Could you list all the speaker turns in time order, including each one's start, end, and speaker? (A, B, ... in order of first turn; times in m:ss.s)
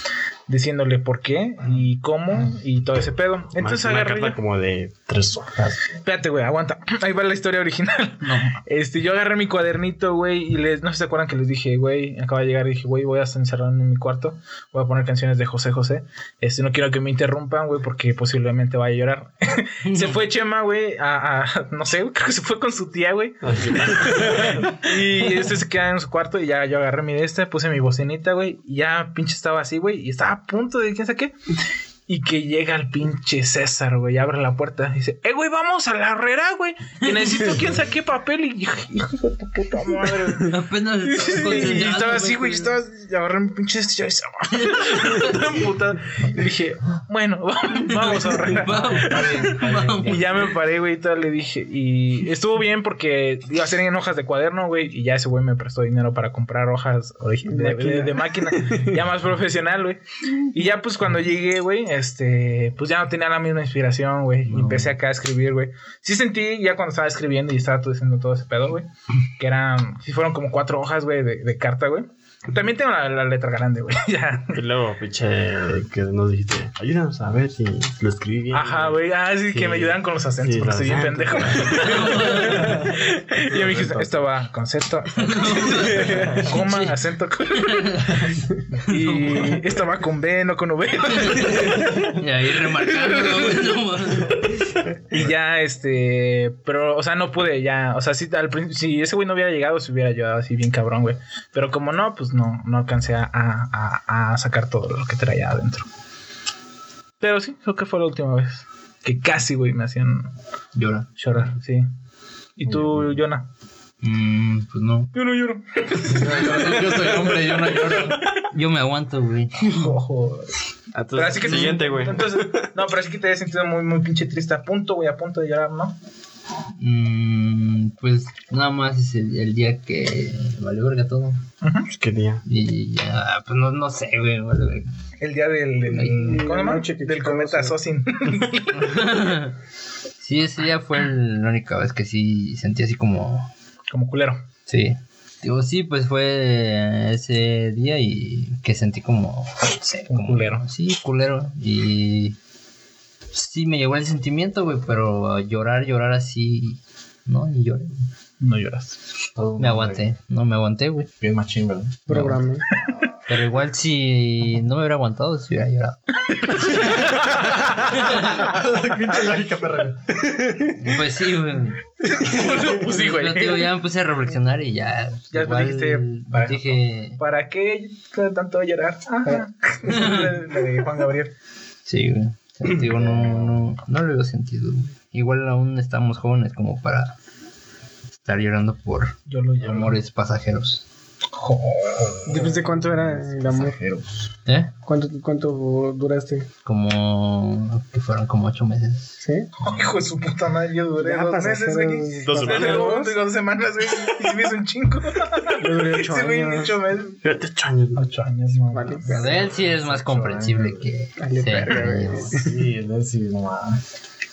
0:00.5-0:04.4 A
0:03.5-0:05.8 B
0:06.0-0:31.3 A
0:08.2-0:08.6 C
0:19.9-0:20.2 C
0:23.4-0:24.7 B
0:32.1-0:40.5 A
0:40.5-0:42.8 C
0:41.0-0:49.1 A
0:45.0-0:45.4 C
0:48.0-0:50.6 C
0:49.0-0:50.1 D
0:50.0-1:00.0 A
0:57.5-0:59.0 E
1:00.5-1:14.6 A
1:04.5-1:04.9 C
1:14.5-1:22.4 B
1:18.5-1:27.9 A
1:21.8-1:22.8 C
1:23.4-1:24.3 B
1:25.2-1:27.0 C
1:27.6-1:29.7 C
1:28.9-1:32.1 A
1:31.2-1:34.6 C
1:32.9-1:33.6 A
1:35.1-1:45.8 A
1:47.2-1:50.3 A
1:50.8-1:51.1 C
1:51.2-1:51.9 A
1:52.6-1:53.4 A
1:52.7-1:53.0 D
1:54.0-1:55.1 C
1:55.1-1:57.1 A
1:56.1-1:58.2 D
1:56.9-2:00.0 C
1:59.8-2:00.5 A
2:00.9-2:02.6 B
2:01.1-2:06.0 A
2:06.8-2:11.4 C
2:11.6-2:11.9 A
2:11.9-2:12.4 B
2:12.4-2:14.9 C
2:15.2-2:18.9 A
2:15.9-2:16.3 C
2:16.1-2:17.8 E
2:18.8-2:19.5 C
2:20.2-2:23.5 C
2:23.9-2:24.4 A
2:24.7-2:32.4 C
2:30.1-2:30.6 A
2:33.3-2:37.9 C
2:38.4-2:39.0 A
2:39.4-2:40.1 D
2:39.6-2:41.1 C
2:41.2-2:42.2 D
2:42.1-2:42.6 E
2:42.1-2:42.4 C
2:43.3-2:46.0 C
2:48.0-2:50.7 D
2:50.8-2:51.8 C
2:52.1-2:53.7 A
2:52.6-2:57.2 C
2:55.3-3:01.3 A
2:59.9-3:00.3 C
3:01.9-3:07.1 C
3:02.9-3:03.6 D
3:08.2-3:10.8 C
3:09.3-3:10.0 A
3:11.3-3:12.6 A
3:12.3-3:13.8 E
3:12.3-3:14.1 D
3:14.4-3:14.7 C
3:14.8-3:16.5 E
3:16.6-3:19.1 C
3:19.2-3:19.5 E
3:19.6-3:27.2 A
3:21.0-3:23.2 E
3:22.3-3:22.9 B
3:25.6-3:26.8 E
3:27.2-3:28.0 B
3:28.0-3:29.1 A
3:28.7-3:29.5 E
3:29.1-3:32.4 C
3:29.1-3:30.9 D
3:31.2-3:32.6 E
3:32.1-3:33.8 D